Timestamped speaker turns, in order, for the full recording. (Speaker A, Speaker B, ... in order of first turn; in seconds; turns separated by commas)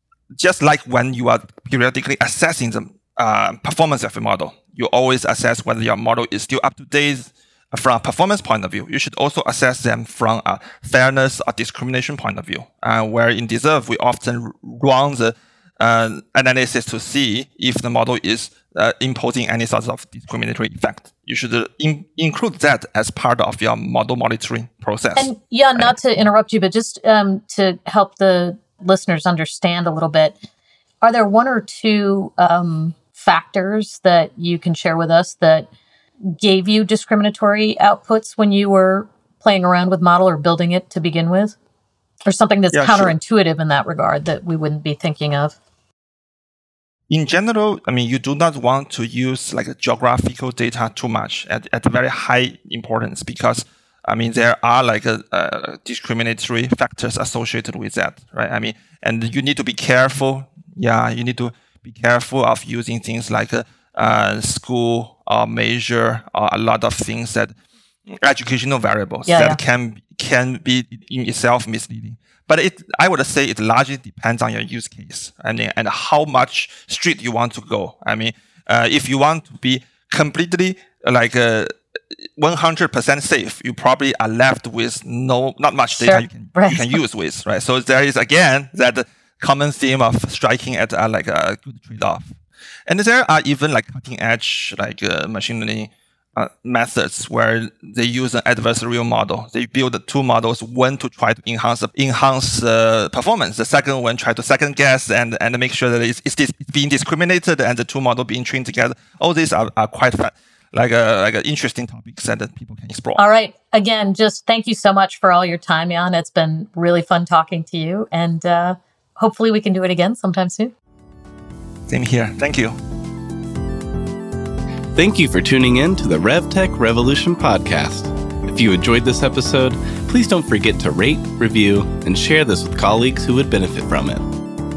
Speaker A: 0.3-26.0, Speaker B: 25.1-30.4, Speaker B: 31.0-35.7, Speaker B: 36.3-41.5, Speaker B: 42.2-45.6, Speaker A: 42.7-43.1, Speaker A: 47.1-67.5, Speaker A: 68.1-92.3, Speaker B: 69.2-69.6, Speaker B: 85.9-87.0, Speaker A: 92.9-113.2, Speaker B: 113.2-120.7, Speaker A: 121.9-122.8, Speaker C: 124.9-134.2